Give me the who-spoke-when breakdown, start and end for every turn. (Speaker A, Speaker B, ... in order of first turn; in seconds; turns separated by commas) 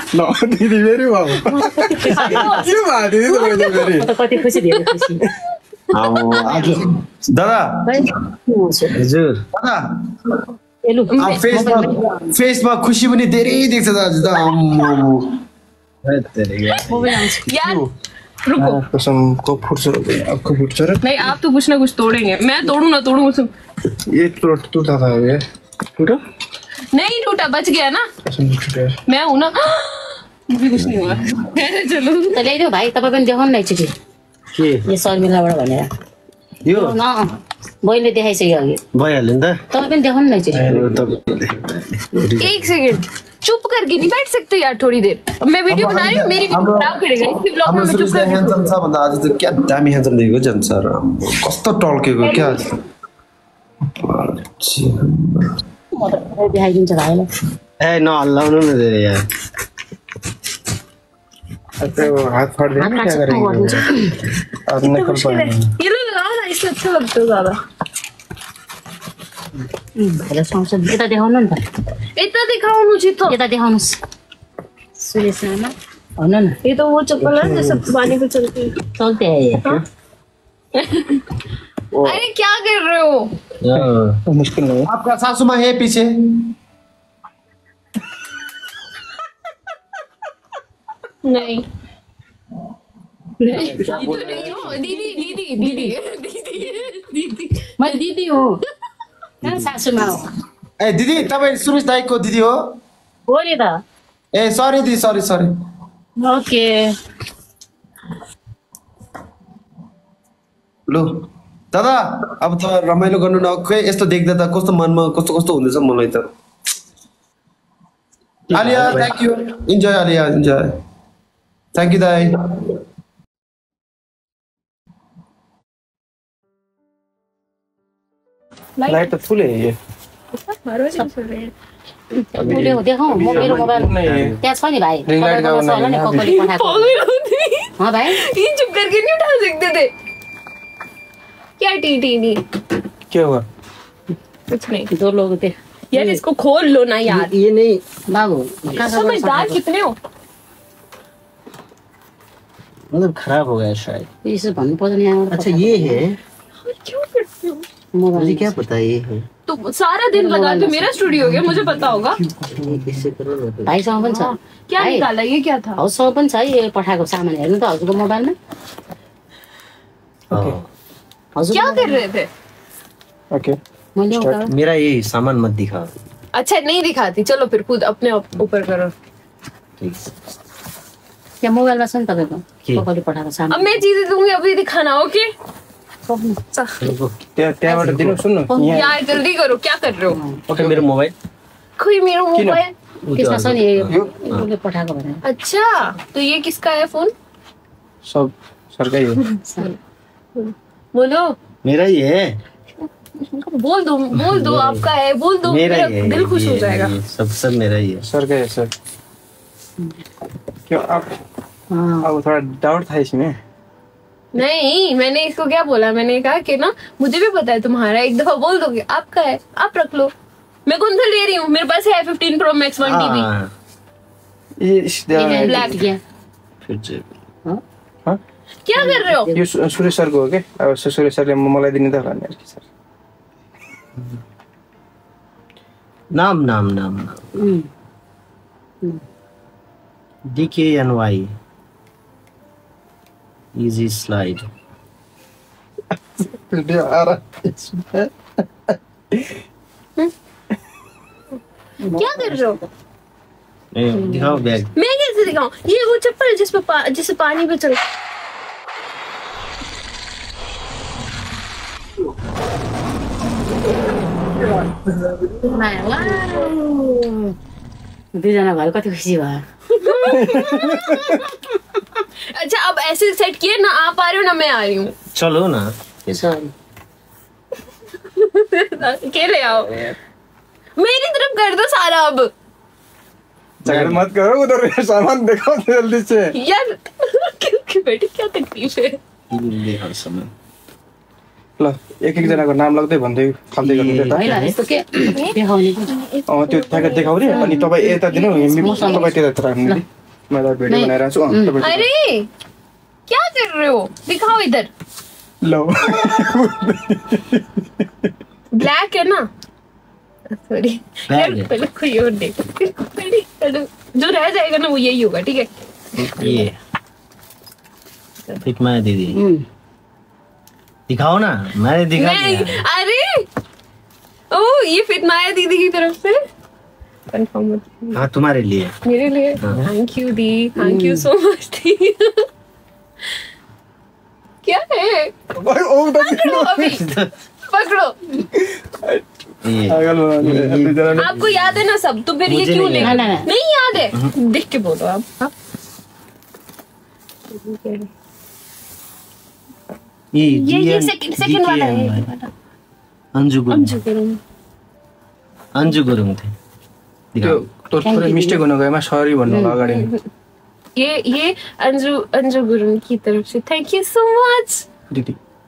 Speaker A: 0.1-4.1, Speaker B: 1.5-2.5, Speaker C: 2.1-3.9, Speaker B: 3.9-5.2, Speaker D: 5.9-8.0, Speaker B: 6.4-6.8, Speaker B: 7.8-9.0, Speaker E: 8.9-9.4, Speaker D: 9.5-10.2, Speaker B: 10.8-12.3, Speaker C: 11.1-11.9, Speaker D: 11.2-15.3, Speaker E: 16.0-17.2, Speaker B: 16.9-17.4, Speaker C: 17.3-17.9, Speaker A: 17.6-17.9, Speaker C: 18.5-18.8, Speaker A: 18.6-21.3, Speaker C: 21.0-23.5, Speaker A: 24.1-25.4, Speaker C: 26.9-28.0, Speaker A: 28.2-28.9, Speaker C: 29.1-32.4, Speaker B: 32.3-33.9, Speaker E: 34.5-34.9, Speaker B: 34.9-35.9, Speaker E: 36.6-37.0, Speaker B: 36.7-38.8, Speaker E: 38.9-39.6, Speaker B: 39.7-40.6, Speaker E: 40.5-42.7, Speaker D: 40.6-41.0, Speaker C: 42.4-48.7, Speaker D: 45.7-46.9, Speaker D: 47.6-52.6, Speaker C: 52.2-52.6, Speaker D: 54.0-55.5, Speaker B: 55.9-57.3, Speaker E: 57.8-59.2, Speaker A: 61.8-63.9, Speaker B: 62.8-64.2, Speaker A: 64.7-65.6, Speaker C: 64.8-67.6, Speaker B: 69.8-71.6, Speaker C: 72.2-73.4, Speaker B: 73.3-74.0, Speaker B: 75.0-76.6, Speaker C: 76.6-78.7, Speaker D: 77.4-77.8, Speaker B: 79.0-79.8, Speaker C: 80.7-81.3, Speaker D: 81.9-82.2, Speaker C: 82.0-83.3, Speaker E: 83.6-84.2, Speaker A: 83.7-84.9, Speaker D: 84.9-86.1, Speaker C: 91.2-91.7, Speaker C: 93.4-98.0, Speaker A: 93.5-94.7, Speaker B: 94.8-96.0, Speaker B: 97.8-98.6, Speaker E: 99.4-99.7, Speaker B: 99.4-100.3, Speaker D: 100.8-102.6, Speaker B: 103.3-103.8, Speaker D: 104.3-105.5, Speaker B: 106.2-106.9, Speaker D: 110.9-111.2, Speaker D: 111.7-116.2, Speaker E: 118.5-119.2, Speaker D: 118.5-120.7, Speaker D: 121.7-122.8, Speaker C: 128.8-129.2, Speaker A: 128.9-129.8, Speaker C: 130.3-131.5, Speaker B: 132.3-137.0, Speaker A: 132.4-134.3, Speaker E: 132.4-134.4, Speaker A: 135.1-136.2, Speaker C: 136.2-139.9, Speaker B: 137.8-138.2, Speaker C: 141.6-142.4, Speaker A: 143.1-143.4, Speaker C: 144.5-144.9, Speaker B: 144.9-146.0, Speaker C: 145.9-147.3, Speaker E: 147.1-147.8, Speaker B: 148.1-149.6, Speaker C: 148.7-150.0, Speaker E: 152.9-154.1, Speaker B: 154.2-156.0, Speaker E: 155.3-156.2, Speaker C: 156.6-157.7, Speaker B: 157.9-158.5, Speaker E: 158.2-159.3, Speaker C: 159.4-162.2, Speaker B: 160.1-161.1, Speaker A: 161.4-162.9, Speaker E: 162.5-163.8, Speaker B: 163.7-165.1, Speaker C: 164.0-165.8, Speaker B: 165.8-168.3, Speaker E: 170.3-170.7, Speaker A: 170.3-170.6, Speaker B: 171.3-172.0, Speaker C: 171.5-172.3, Speaker B: 173.9-174.5, Speaker A: 174.1-174.4, Speaker E: 174.5-175.9, Speaker C: 176.3-178.9, Speaker E: 179.8-180.1, Speaker B: 181.4-183.8, Speaker C: 183.5-185.3, Speaker B: 186.1-186.4, Speaker C: 186.5-186.8, Speaker E: 186.8-187.1, Speaker A: 187.4-188.9, Speaker E: 187.7-188.2, Speaker B: 188.5-188.8, Speaker C: 188.6-190.2, Speaker B: 190.1-190.4, Speaker E: 190.5-191.1, Speaker A: 190.5-190.8, Speaker C: 191.8-192.7, Speaker A: 192.3-192.6, Speaker E: 193.0-194.5, Speaker B: 193.1-195.2, Speaker C: 195.2-197.1, Speaker A: 198.0-199.2, Speaker B: 199.5-199.7, Speaker C: 200.3-201.3, Speaker E: 201.6-202.3, Speaker C: 202.8-206.9, Speaker E: 204.2-204.8, Speaker E: 205.4-208.0, Speaker A: 208.0-208.7, Speaker A: 210.7-211.1, Speaker B: 211.7-212.1, Speaker A: 212.0-213.4, Speaker C: 214.3-220.1, Speaker C: 220.7-223.3, Speaker E: 222.8-223.5, Speaker A: 224.6-225.7, Speaker B: 225.2-226.0, Speaker C: 225.4-225.8, Speaker E: 226.6-227.1, Speaker C: 228.6-229.3, Speaker B: 228.8-229.4, Speaker A: 229.3-232.6, Speaker E: 236.1-237.2, Speaker B: 237.4-237.7, Speaker E: 240.3-241.3, Speaker E: 243.5-244.5, Speaker A: 246.2-248.1, Speaker A: 248.7-249.3, Speaker B: 251.8-252.7, Speaker C: 251.9-252.6, Speaker E: 253.7-254.7, Speaker B: 253.9-254.4, Speaker C: 254.7-257.8, Speaker B: 265.4-267.1, Speaker B: 268.1-269.4, Speaker C: 269.7-271.3, Speaker A: 270.1-271.2, Speaker C: 272.3-274.9, Speaker E: 275.0-276.3, Speaker B: 276.1-276.5, Speaker C: 278.1-279.9, Speaker C: 280.8-282.3, Speaker E: 283.6-284.0, Speaker A: 283.6-286.3, Speaker C: 286.3-289.0, Speaker E: 289.3-290.3, Speaker A: 291.6-294.2, Speaker E: 293.6-294.6, Speaker B: 294.1-295.9, Speaker C: 295.0-299.1, Speaker A: 296.3-301.9, Speaker B: 297.3-299.8, Speaker B: 300.7-301.6, Speaker C: 301.6-302.3, Speaker C: 303.1-304.7, Speaker A: 305.4-307.8, Speaker C: 308.5-309.3, Speaker C: 310.3-315.5, Speaker E: 311.1-311.5, Speaker E: 316.0-316.6, Speaker C: 316.2-316.5, Speaker E: 318.4-319.2, Speaker B: 319.1-319.4, Speaker E: 320.9-322.6, Speaker C: 321.9-323.2, Speaker C: 324.3-326.2, Speaker C: 327.1-328.0, Speaker E: 327.9-328.7, Speaker C: 328.8-332.2, Speaker B: 330.6-331.1, Speaker C: 334.4-335.1, Speaker A: 335.3-336.6, Speaker C: 336.0-336.8, Speaker E: 336.6-337.1, Speaker C: 337.5-338.0, Speaker A: 338.3-339.0, Speaker E: 339.4-341.6, Speaker A: 339.7-341.1, Speaker C: 341.0-345.3, Speaker E: 342.2-343.1, Speaker B: 342.8-343.3, Speaker C: 347.3-347.9, Speaker E: 350.1-352.1, Speaker C: 350.3-352.3, Speaker E: 353.1-353.8, Speaker C: 353.5-354.2, Speaker E: 355.5-356.3, Speaker E: 357.1-357.4, Speaker A: 357.2-359.9, Speaker B: 357.8-358.4, Speaker B: 359.3-359.6, Speaker C: 359.6-360.0, Speaker C: 360.8-364.6, Speaker A: 364.9-365.2